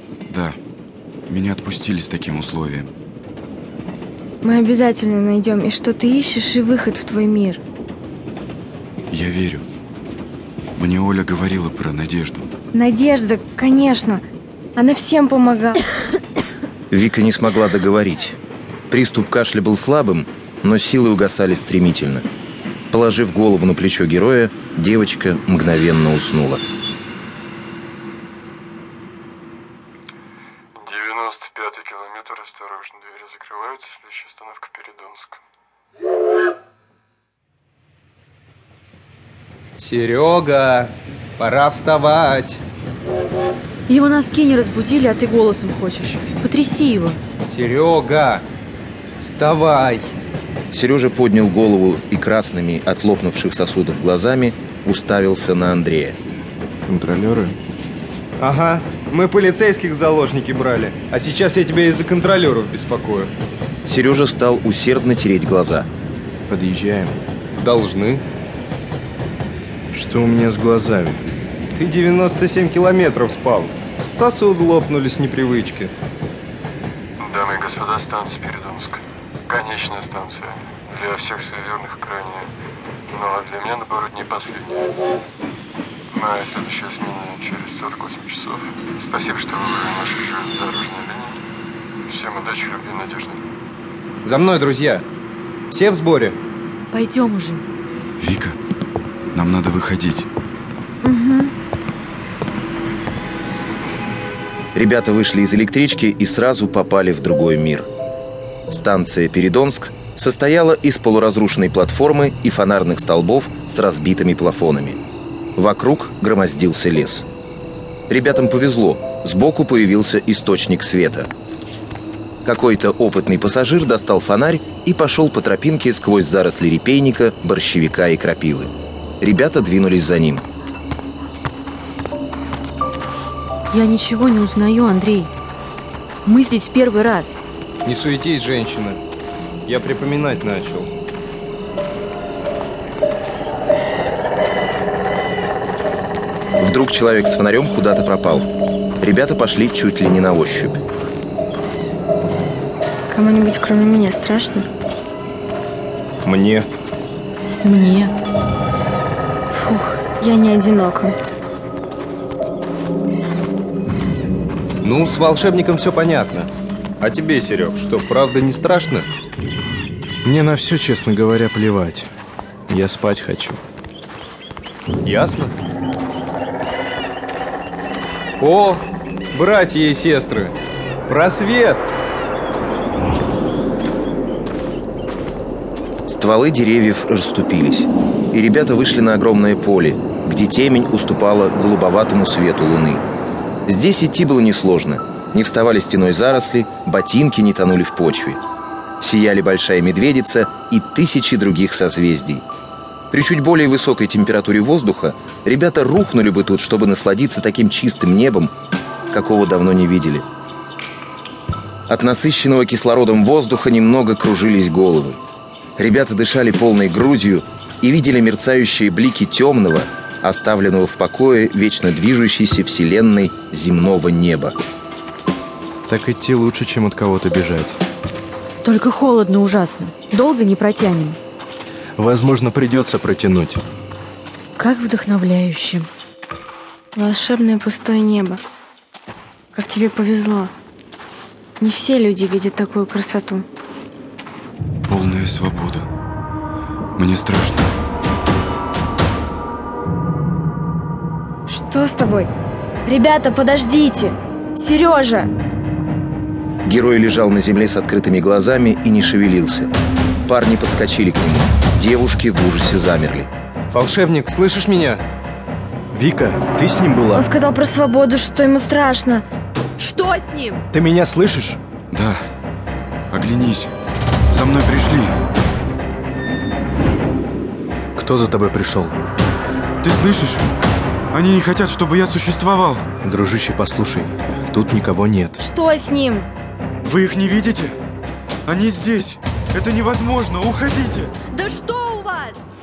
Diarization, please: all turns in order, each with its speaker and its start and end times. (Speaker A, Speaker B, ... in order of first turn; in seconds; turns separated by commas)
Speaker A: 0.3-0.6, Speaker A: 1.3-2.9, Speaker B: 4.4-7.6, Speaker A: 9.1-9.6, Speaker A: 10.8-12.5, Speaker B: 12.7-14.2, Speaker B: 14.8-15.8, Speaker C: 16.9-18.4, Speaker C: 18.9-22.2, Speaker C: 22.9-26.6, Speaker D: 30.7-35.4, Speaker E: 39.8-42.6, Speaker F: 43.9-47.2, Speaker E: 47.5-48.5, Speaker E: 49.2-50.0, Speaker C: 50.7-56.2, Speaker G: 56.9-57.6, Speaker E: 58.4-63.3, Speaker C: 63.8-65.9, Speaker G: 66.5-67.2, Speaker E: 67.6-68.2, Speaker G: 69.9-71.2, Speaker E: 71.7-75.9, Speaker D: 77.2-82.5, Speaker D: 83.1-84.9, Speaker D: 86.1-91.4, Speaker D: 92.1-93.4, Speaker E: 94.2-95.0, Speaker E: 95.7-96.4, Speaker F: 96.9-97.6, Speaker A: 98.2-98.5, Speaker A: 99.3-100.3, Speaker B: 101.0-101.5, Speaker C: 104.7-107.9, Speaker C: 108.7-115.0, Speaker C: 115.6-117.2, Speaker C: 118.1-121.3, Speaker C: 122.4-130.4, Speaker F: 133.7-135.3, Speaker F: 136.2-137.4, Speaker E: 137.8-139.0, Speaker E: 139.7-140.9, Speaker C: 146.6-148.5, Speaker C: 149.0-150.8, Speaker B: 153.1-154.7, Speaker E: 156.2-156.7, Speaker F: 157.6-158.1, Speaker B: 159.5-161.2, Speaker E: 164.8-166.5, Speaker E: 167.0-169.1, Speaker G: 170.2-172.1, Speaker G: 172.7-173.6, Speaker E: 175.0-175.5, Speaker E: 178.4-180.5, Speaker E: 181.1-181.9, Speaker C: 186.1-193.0, Speaker C: 193.7-198.4, Speaker C: 199.0-202.4, Speaker C: 203.1-208.5, Speaker C: 209.1-210.2, Speaker C: 211.9-215.2, Speaker C: 215.8-224.6, Speaker G: 225.9-227.8, Speaker F: 228.6-231.2, Speaker G: 232.0-233.6, Speaker F: 234.6-235.8, Speaker B: 236.9-238.4, Speaker B: 239.5-240.5, Speaker B: 241.6-243.4, Speaker A: 244.9-245.9, Speaker A: 247.0-247.7, Speaker B: 251.5-252.3, Speaker B: 252.8-255.3, Speaker C: 256.6-259.7, Speaker C: 260.2-263.3, Speaker E: 263.7-265.0, Speaker G: 265.9-267.3, Speaker B: 267.1-269.2, Speaker F: 269.8-270.6, Speaker G: 270.7-271.6, Speaker A: 271.9-272.2, Speaker A: 273.1-273.7, Speaker A: 274.3-275.1, Speaker G: 277.9-278.9, Speaker A: 279.8-280.4, Speaker A: 281.1-282.9, Speaker G: 283.0-285.4, Speaker B: 285.4-286.3, Speaker A: 286.8-287.8, Speaker A: 288.5-291.1, Speaker F: 291.3-292.5